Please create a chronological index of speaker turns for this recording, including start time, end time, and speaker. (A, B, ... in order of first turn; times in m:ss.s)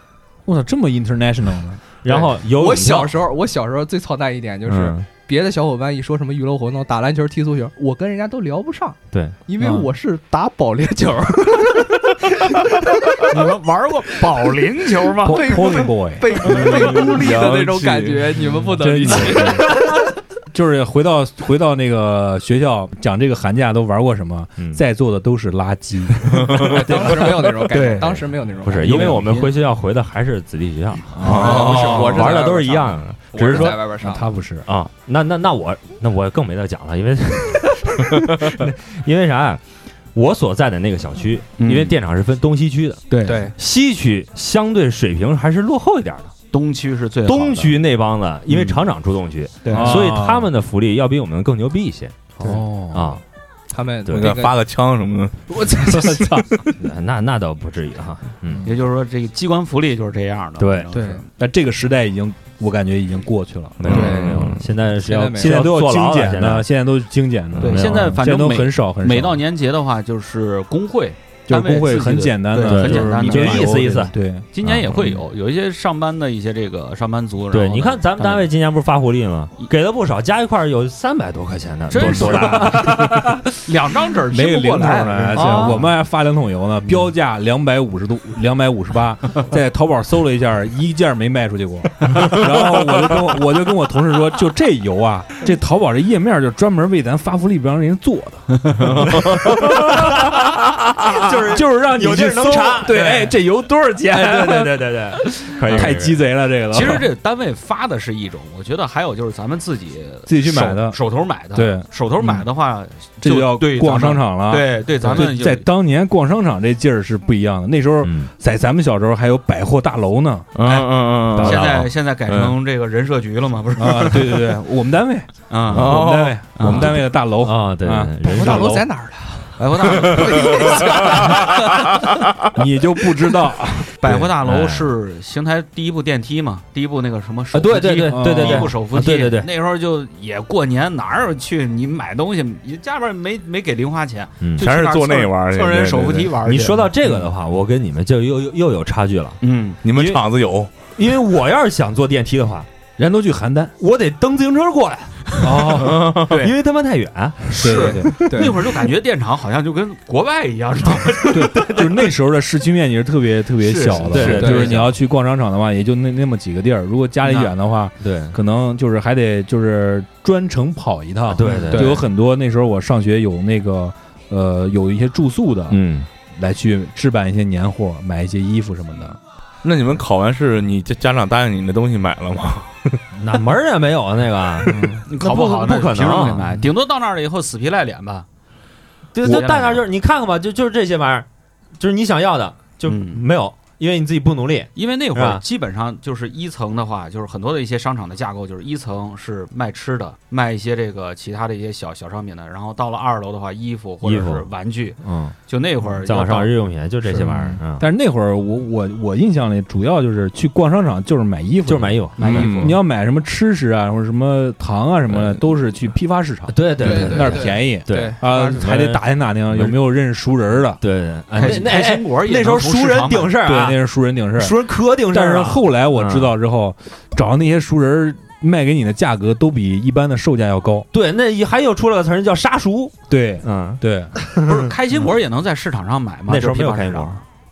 0:00.5-0:01.8 A
0:02.0-0:03.2 B
0:02.1-0:13.3 C
0:04.7-0:05.1 B
0:09.6-0:09.9 A
0:13.3-0:15.7 D
0:15.2-0:16.5 A
0:15.2-0:19.9 C
0:16.4-0:19.2 E
0:18.8-0:19.7 A
0:20.5-0:26.9 A
0:26.3-0:26.8 E
0:26.6-0:29.2 C
0:27.7-0:29.5 D
0:28.6-0:33.8 B
0:31.1-0:32.2 A
0:31.2-0:32.2 E
0:31.3-0:34.2 C
0:33.4-0:34.7 A
0:34.7-0:39.6 B
0:40.2-0:46.3 B
0:41.6-0:42.0 D
0:43.1-0:43.5 D
0:43.2-0:43.6 C
0:46.5-0:47.8 D
0:47.3-0:53.2 B
0:48.5-0:48.8 D
0:49.6-0:50.1 D
0:49.7-0:50.5 A
0:52.4-0:53.2 A
0:53.7-0:54.6 C
0:54.1-0:56.7 E
0:55.5-0:56.4 C
0:55.9-0:56.4 A
0:56.8-0:58.6 B
0:58.6-1:01.3 D
1:00.6-1:00.9 B
1:00.9-1:01.2 C
1:01.4-1:04.1 A
1:03.8-1:06.7 B
1:03.9-1:04.7 E
1:03.9-1:05.6 C
1:05.3-1:09.4 A
1:07.6-1:08.2 B
1:07.6-1:18.4 D
1:11.5-1:14.5 A
1:12.6-1:15.2 B
1:17.5-1:23.0 B
1:21.9-1:25.8 D
1:22.0-1:23.4 A
1:24.3-1:40.4 A
1:25.4-1:25.7 C
1:38.9-1:39.5 E
1:39.7-1:43.2 B
1:41.4-1:47.1 A
1:42.9-1:43.3 D
1:44.1-1:46.2 B
1:46.7-1:55.6 D
1:50.3-1:51.0 A
1:51.5-1:52.4 A
1:53.2-2:00.5 A
1:58.0-1:58.3 B
2:00.6-2:02.6 E
2:00.6-2:04.5 D
2:01.3-2:01.9 B
2:03.8-2:08.8 A
2:05.5-2:07.0 D
2:05.7-2:06.4 E
2:06.6-2:08.8 B
2:08.3-2:12.0 C
2:09.6-2:10.9 D
2:10.3-2:10.6 E
2:12.5-2:14.2 A
2:14.0-2:26.9 D
2:14.1-2:14.9 B
2:17.5-2:19.5 B
2:18.0-2:18.7 A
2:24.6-2:26.4 E
2:26.4-2:29.4 B
2:29.4-2:29.8 D
2:29.8-2:30.7 E
2:29.9-2:30.2 B
2:31.0-2:32.7 B
2:33.0-2:33.8 A
2:33.8-2:35.3 B
2:35.4-2:36.2 A
2:35.8-2:36.3 E
2:36.1-2:37.6 B
2:36.3-2:36.5 D
2:37.5-2:42.1 D
2:37.6-2:38.3 A
2:37.7-2:38.6 C
2:41.3-2:55.8 A
2:43.6-2:44.9 D
2:44.0-2:44.9 B
2:44.4-2:44.7 C
2:47.2-2:47.5 D
2:48.0-2:48.4 B
2:51.3-2:52.0 B
2:51.5-2:51.9 D
2:51.7-2:52.0 C
2:55.7-2:56.1 B
2:56.4-2:59.2 A
2:59.6-3:03.0 E
3:03.2-3:06.5 B
3:04.9-3:08.3 D
3:09.1-3:11.3 B
3:09.2-3:09.8 D
3:11.8-3:15.4 B
3:12.8-3:13.2 D
3:14.8-3:26.5 D
3:24.0-3:24.5 B
3:25.0-3:25.4 B
3:26.0-3:27.9 B
3:27.1-3:40.8 A
3:31.7-3:32.8 B
3:32.2-3:32.8 D
3:36.5-3:39.8 B
3:36.8-3:38.6 C
3:40.8-3:43.8 B
3:41.4-3:43.4 D
3:43.4-3:50.9 A
3:44.4-3:46.4 B
3:50.9-3:54.5 B
3:53.1-3:54.2 A
3:54.4-3:57.2 D
3:56.3-3:57.2 B